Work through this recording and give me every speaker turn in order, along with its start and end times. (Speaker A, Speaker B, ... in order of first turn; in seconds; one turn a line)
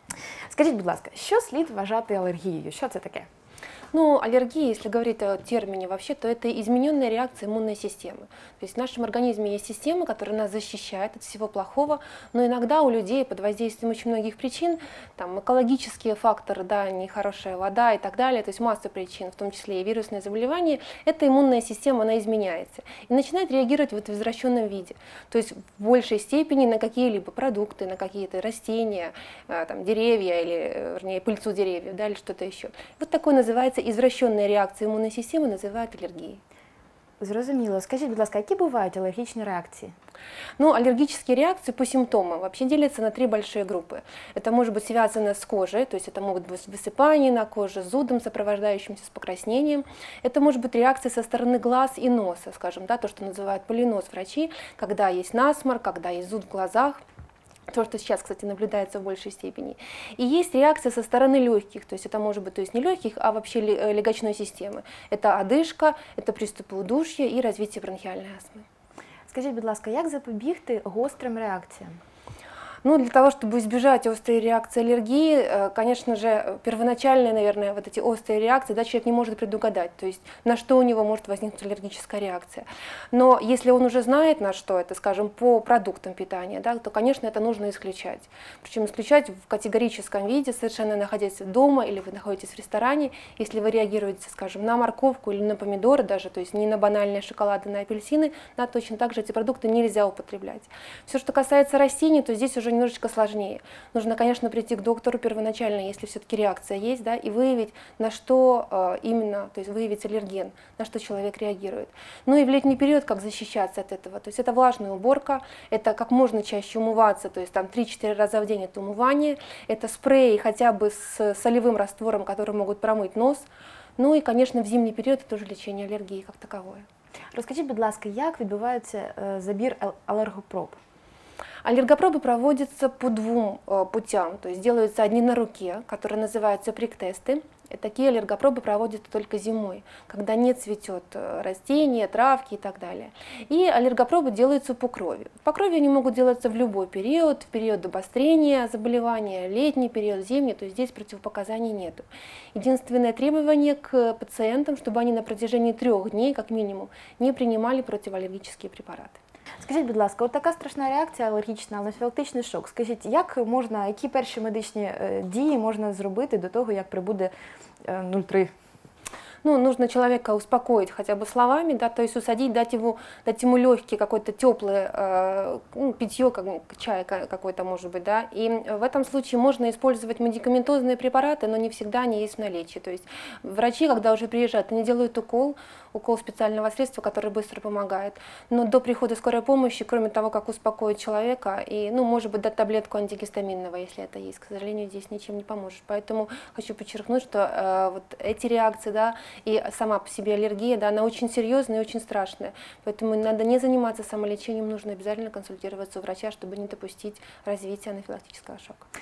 Speaker A: 0.5-3.3
Speaker B: 3.9-36.4
Speaker A: 37.2-40.0
Speaker B: 40.6-57.0
Speaker B: 57.7-68.7
Speaker A: 69.3-72.0
Speaker B: 72.8-126.9
Speaker A: 127.3-130.8
Speaker B: 131.6-159.2
Speaker A: 159.6-167.3
Speaker A: 167.8-168.5
Speaker B: 169.4-208.9